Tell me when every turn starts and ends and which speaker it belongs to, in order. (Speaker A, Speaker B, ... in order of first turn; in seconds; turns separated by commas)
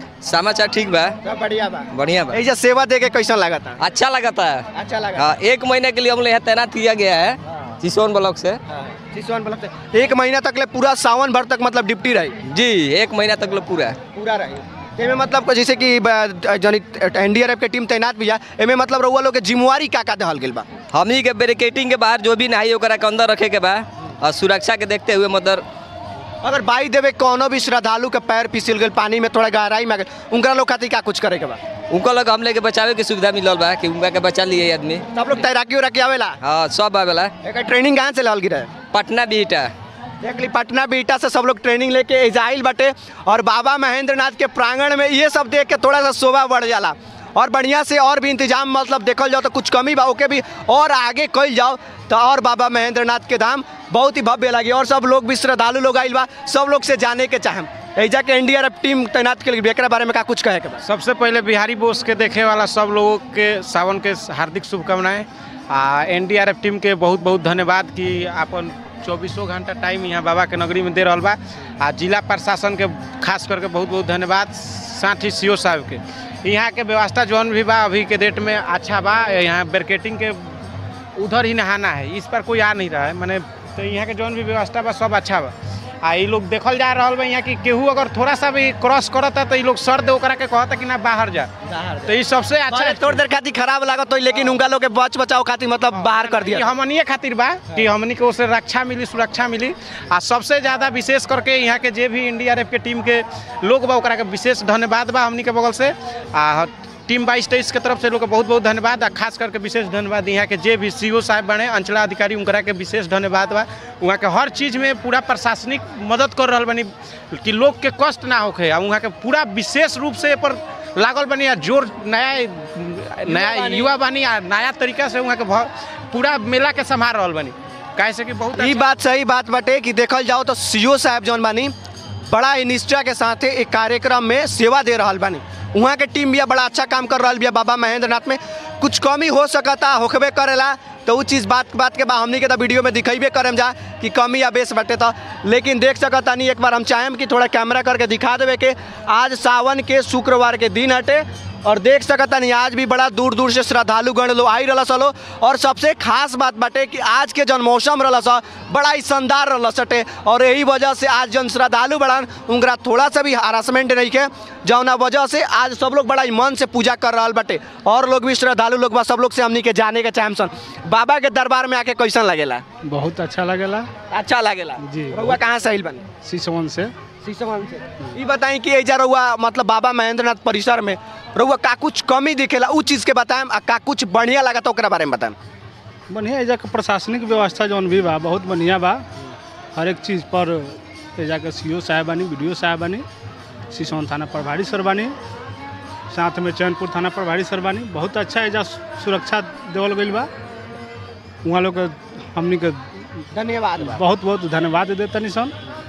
Speaker A: 0.2-1.2, Speaker B: 1.2-3.8, Speaker A: 1.9-2.4, Speaker A: 3.8-8.6, Speaker B: 4.7-5.3, Speaker B: 8.7-12.3, Speaker A: 12.4-14.0, Speaker B: 14.1-20.6, Speaker A: 20.9-25.6, Speaker B: 26.4-31.6, Speaker A: 31.9-35.0, Speaker B: 35.1-36.4, Speaker A: 36.4-37.3, Speaker B: 37.4-38.7, Speaker A: 38.9-39.7, Speaker B: 40.2-60.8, Speaker C: 60.8-80.6, Speaker C: 81.2-91.5, Speaker B: 91.6-92.1, Speaker C: 92.0-93.2, Speaker B: 92.7-96.7, Speaker C: 95.9-128.9, Speaker B: 123.3-123.9, Speaker B: 128.6-131.7, Speaker B: 132.3-172.6, Speaker D: 172.8-173.9, Speaker B: 174.1-176.0, Speaker D: 174.8-175.4, Speaker D: 176.2-176.9, Speaker B: 177.2-185.3, Speaker D: 186.1-189.0, Speaker D: 189.7-193.0, Speaker D: 193.7-195.1, Speaker D: 196.1-200.3, Speaker D: 201.4-203.0, Speaker B: 203.3-204.0, Speaker D: 203.8-205.5